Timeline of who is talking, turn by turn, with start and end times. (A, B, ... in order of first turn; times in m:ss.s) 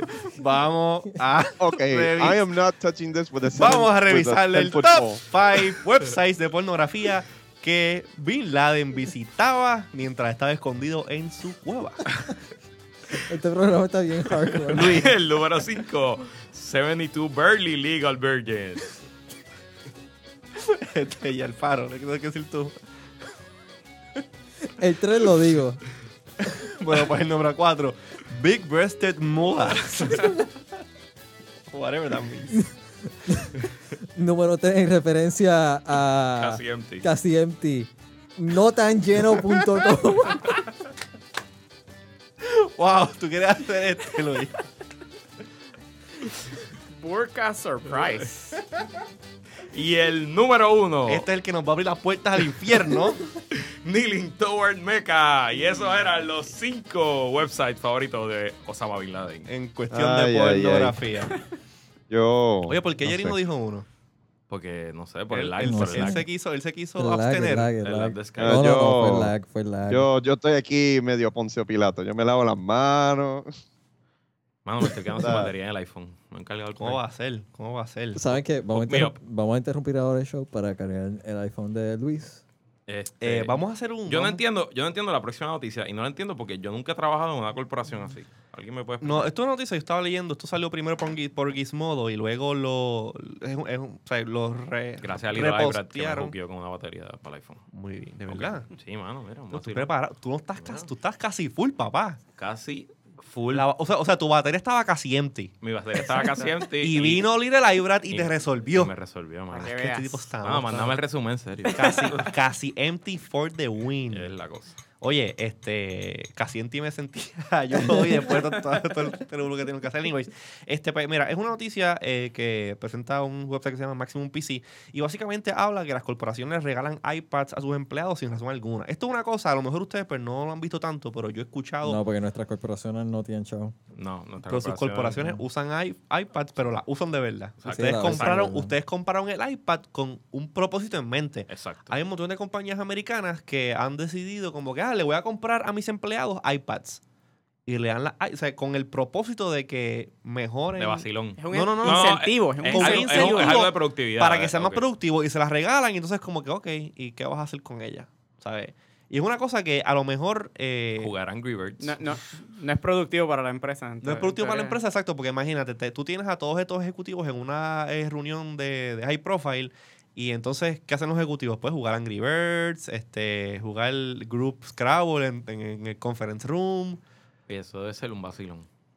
0:00.3-0:02.4 A
0:01.6-0:05.2 B
0:03.5-0:12.1 A
0:13.2-0:15.1 C
0:14.7-0:19.0 D
0:14.7-0:15.1 A
0:20.6-0:22.7 A
0:24.7-0:25.8 C
0:26.4-0:30.5 A
0:31.7-0:32.6 A
0:32.6-0:40.6 C
0:36.4-0:37.1 D
0:42.4-0:44.6 A
0:46.9-0:48.6 E
0:49.7-0:51.3 D
0:51.1-0:53.2 A
0:53.5-0:59.5 D
0:59.5-1:01.4 A
0:59.9-1:01.0 B
1:02.1-1:03.4 B
1:02.7-1:03.8 A
1:04.5-1:06.2 D
1:05.3-1:07.7 A
1:05.6-1:06.3 C
1:07.0-1:10.1 C
1:07.8-1:08.7 D
1:08.4-1:09.3 B
1:09.9-1:13.5 B
1:14.6-1:17.0 D
1:15.2-1:15.5 B
1:16.8-1:18.4 A
1:18.1-1:22.4 C
1:18.7-1:19.2 D
1:22.9-1:29.3 D
1:23.2-1:24.4 A
1:29.0-1:36.3 A
1:35.0-1:37.6 D
1:37.7-1:38.7 A
1:38.3-1:39.9 D
1:39.5-1:42.2 A
1:40.6-1:40.9 D
1:42.4-1:43.7 D
1:43.5-1:45.5 A
1:45.6-1:47.3 D
1:46.8-1:48.9 A
1:48.1-1:49.8 D
1:49.5-1:50.2 E
1:49.5-1:51.0 A
1:50.4-1:52.3 D
1:51.7-1:54.3 A
1:51.8-1:52.1 E
1:54.1-1:54.8 D
1:55.0-2:12.0 A
2:11.8-2:13.7 C
2:13.9-2:15.4 D
2:14.5-2:27.0 A
2:17.6-2:18.4 D
2:17.7-2:18.7 C
2:21.5-2:21.9 D
2:27.6-2:41.1 A
2:30.8-2:34.8 D
2:31.4-2:33.6 E
2:41.0-2:42.0 D
2:41.8-2:44.8 E
2:44.0-2:57.0 A
2:57.5-2:58.7 D